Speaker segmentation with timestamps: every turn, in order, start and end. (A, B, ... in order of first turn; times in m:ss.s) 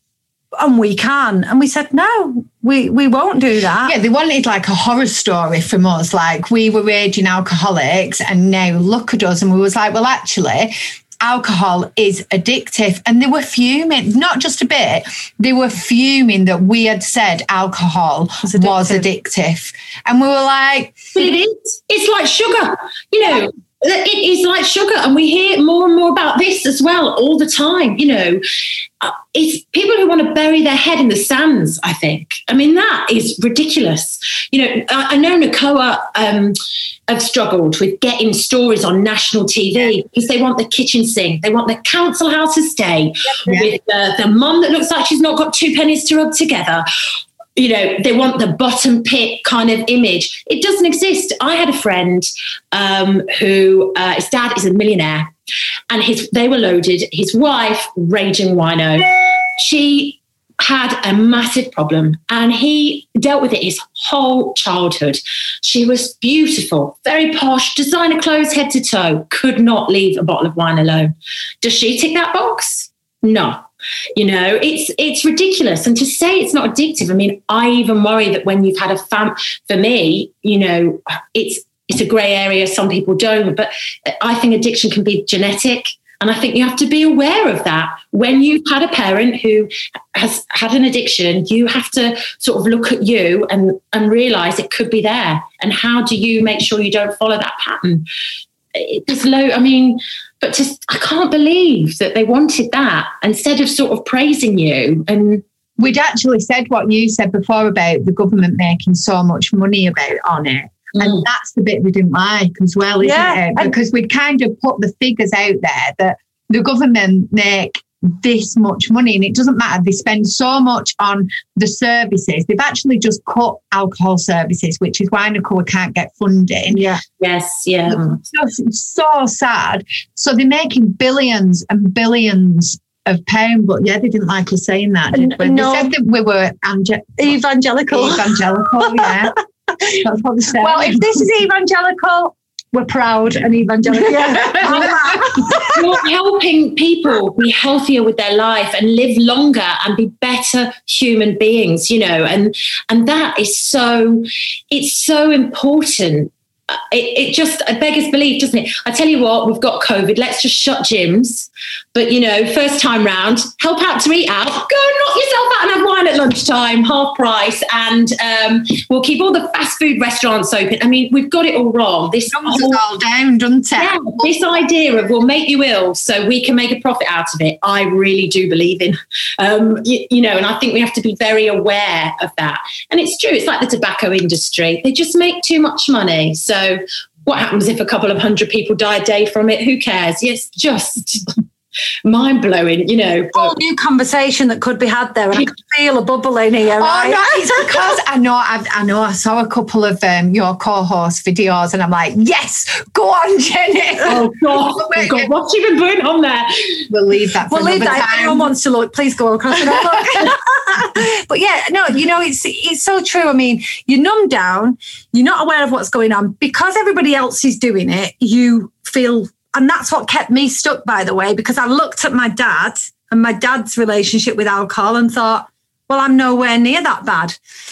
0:00.6-0:04.0 A
0:03.8-0:21.1 B
0:18.4-0:19.0 A
0:21.2-0:28.4 C
0:29.0-0:36.6 C
0:37.1-0:46.9 C
0:43.5-0:43.7 B
0:47.6-0:55.3 C
0:55.9-1:13.6 C
1:14.2-1:38.1 C
1:38.7-1:45.4 C
1:45.8-2:06.8 B
1:51.0-1:51.2 C
1:53.0-1:53.7 A
2:06.7-2:07.0 A
2:07.2-2:08.2 C
2:07.9-2:17.3 B
2:15.1-2:15.9 A
2:17.2-2:19.2 A
2:17.9-2:19.4 B
2:19.9-2:21.2 B
2:20.6-2:25.8 A
2:23.9-2:25.5 B
2:24.8-2:52.8 C
2:52.3-2:54.3 B
2:53.8-3:11.4 C
3:12.0-3:13.6 C
3:13.4-3:17.8 A
3:16.8-3:25.3 B
3:24.0-3:26.9 C
3:26.9-3:28.5 B
3:27.5-3:47.4 A
3:29.7-3:30.2 B